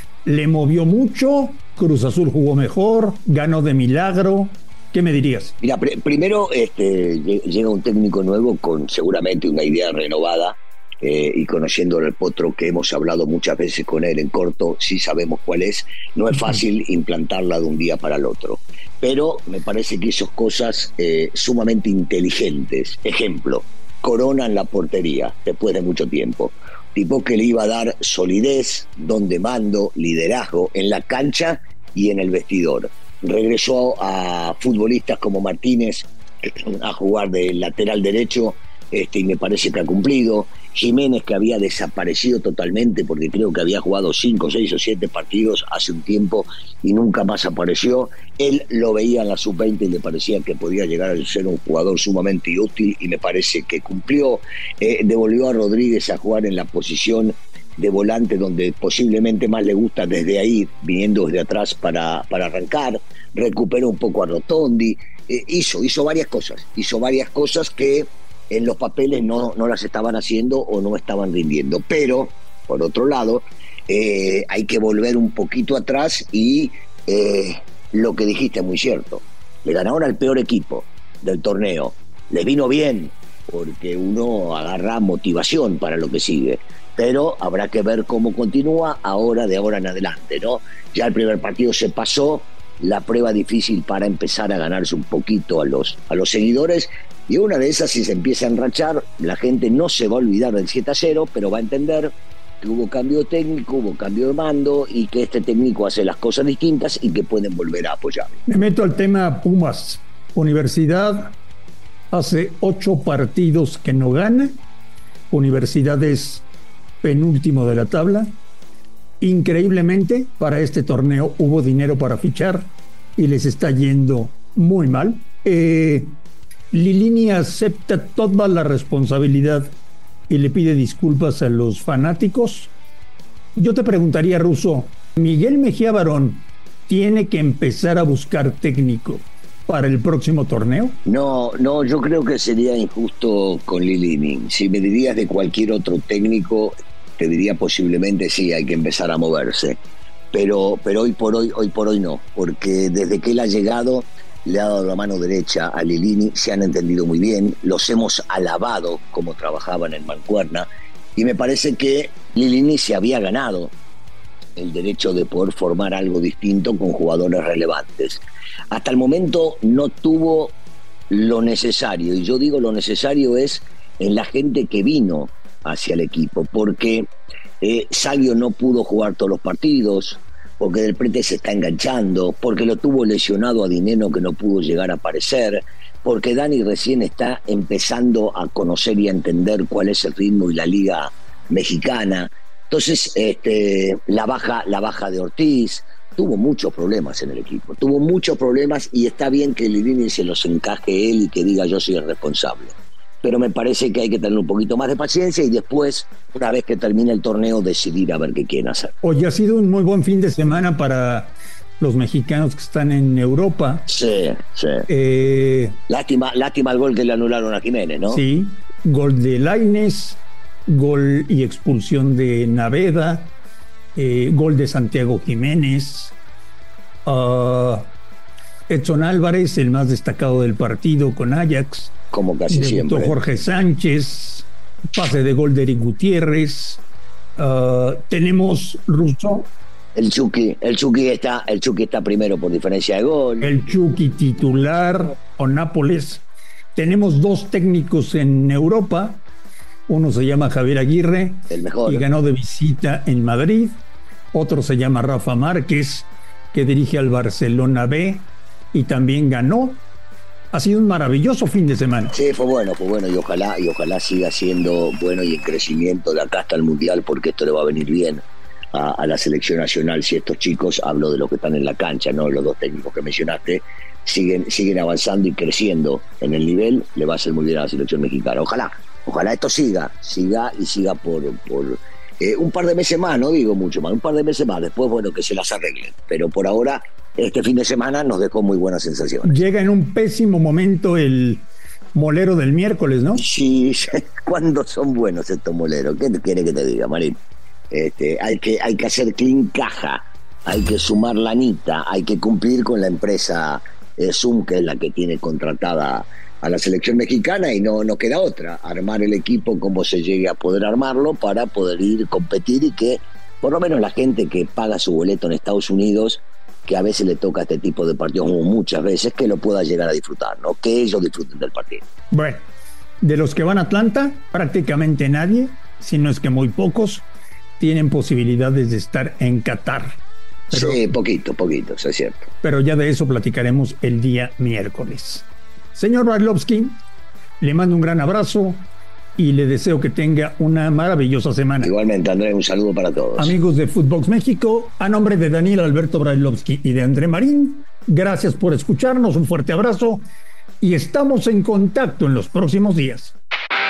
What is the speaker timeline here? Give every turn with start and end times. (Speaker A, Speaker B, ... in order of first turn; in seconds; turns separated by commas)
Speaker A: 0.2-5.5, Speaker B: 5.6-108.4, Speaker A: 108.5-111.4, Speaker A: 112.1-114.6, Speaker A: 115.3-116.4, Speaker A: 117.0-118.3, Speaker A: 119.2-126.1, Speaker A: 126.7-129.7, Speaker A: 130.3-132.7, Speaker A: 133.5-141.0, Speaker B: 141.0-149.8, Speaker B: 150.3-163.7, Speaker B: 164.6-170.5, Speaker B: 171.1-177.1, Speaker B: 177.6-208.9, Speaker A: 209.0-213.9, Speaker B: 213.9-214.9, Speaker A: 214.9-215.8, Speaker B: 215.9-218.2, Speaker A: 218.1-223.3, Speaker A: 223.9-226.2, Speaker A: 227.1-227.9, Speaker A: 228.7-231.9, Speaker B: 232.1-233.2, Speaker A: 232.5-236.8, Speaker A: 237.4-239.5, Speaker B: 239.9-243.5, Speaker A: 243.4-249.2, Speaker A: 249.9-253.8, Speaker B: 251.5-252.1, Speaker A: 254.3-259.8, Speaker A: 260.5-262.1, Speaker B: 262.1-268.2, Speaker B: 268.7-289.4, Speaker A: 289.2-293.2, Speaker B: 293.1-297.2, Speaker B: 297.7-321.8, Speaker A: 322.1-322.4, Speaker A: 323.0-327.1, Speaker A: 327.6-330.0, Speaker A: 330.5-330.9, Speaker B: 330.5-332.3, Speaker A: 332.4-336.8, Speaker A: 337.4-341.7, Speaker B: 341.6-343.3, Speaker A: 343.2-350.0, Speaker A: 350.6-353.1